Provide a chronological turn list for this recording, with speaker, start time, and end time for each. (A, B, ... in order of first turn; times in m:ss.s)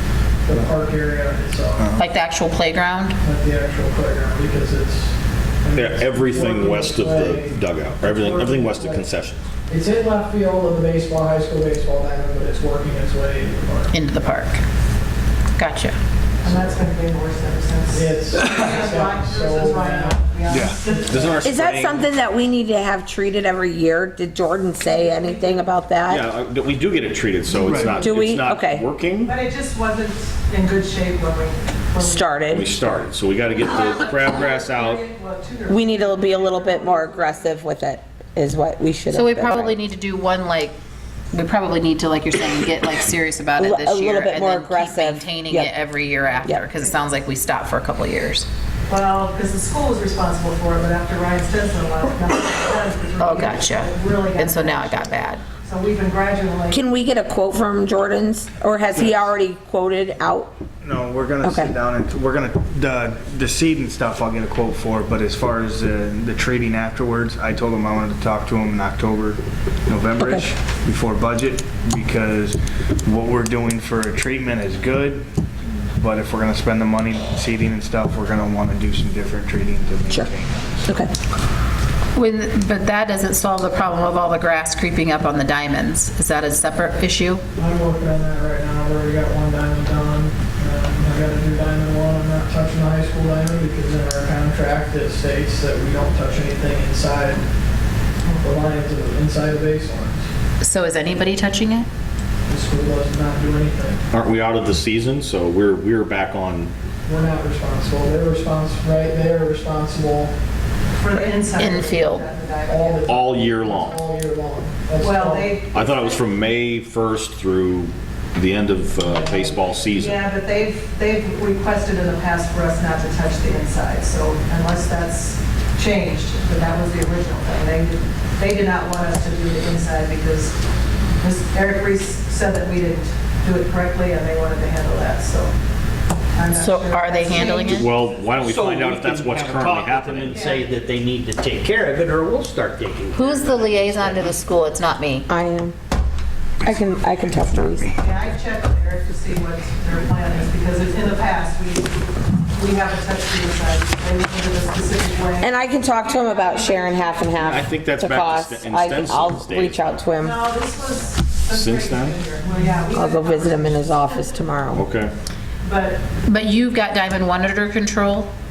0:00.4-0:01.9 A
0:01.8-0:02.0 B
0:02.0-0:03.2 C
0:03.2-0:09.0 A
0:05.8-0:09.4 D
0:09.7-0:13.9 A
0:13.9-0:14.6 C
0:15.6-0:16.0 C
0:16.4-0:21.5 E
0:17.9-0:20.2 A
0:20.5-0:20.8 B
0:20.9-0:21.2 A
0:21.1-0:22.1 D
0:21.4-0:26.3 F
0:24.8-0:25.7 E
0:26.1-0:29.4 D
0:27.6-0:28.0 B
0:28.0-0:28.9 F
0:29.2-0:32.4 E
0:32.0-0:32.7 F
0:32.5-0:35.0 D
0:33.5-0:37.5 E
0:35.7-0:39.8 F
0:39.1-0:40.8 C
0:41.3-0:48.5 C
0:43.6-0:45.7 F
0:48.9-0:56.8 E
0:53.2-0:55.4 C
0:56.7-1:00.5 F
0:58.9-0:59.2 B
1:00.8-1:15.2 B
1:01.4-1:01.7 F
1:10.2-1:10.5 F
1:16.0-1:20.8 B
1:20.9-1:21.1 F
1:22.2-1:27.4 C
1:27.6-1:37.5 A
1:38.2-1:38.5 E
1:38.4-1:40.3 A
1:40.6-1:41.9 C
1:42.5-1:44.0 A
1:44.1-1:46.7 D
1:47.1-1:50.3 A
1:51.0-1:53.0 E
1:51.5-1:52.3 C
1:52.7-1:55.6 A
1:53.0-1:54.0 D
1:55.0-1:56.2 E
1:55.7-2:00.2 D
1:59.0-1:59.6 A
1:59.9-2:10.6 E
2:11.2-2:15.5 E
2:16.3-2:17.9 E
2:16.5-2:17.9 C
2:17.3-2:20.5 D
2:18.1-2:24.3 G
2:20.3-2:20.7 E
2:23.1-2:25.3 C
2:25.3-2:25.8 F
2:26.6-2:27.9 F
2:28.0-2:31.9 E
2:32.5-2:37.6 E
2:35.4-2:40.4 F
2:37.4-2:39.8 D
2:40.2-2:44.2 E
2:41.5-2:42.2 D
2:42.9-2:44.9 F
2:44.7-2:45.1 D
2:45.6-2:46.0 E
2:46.3-2:48.3 C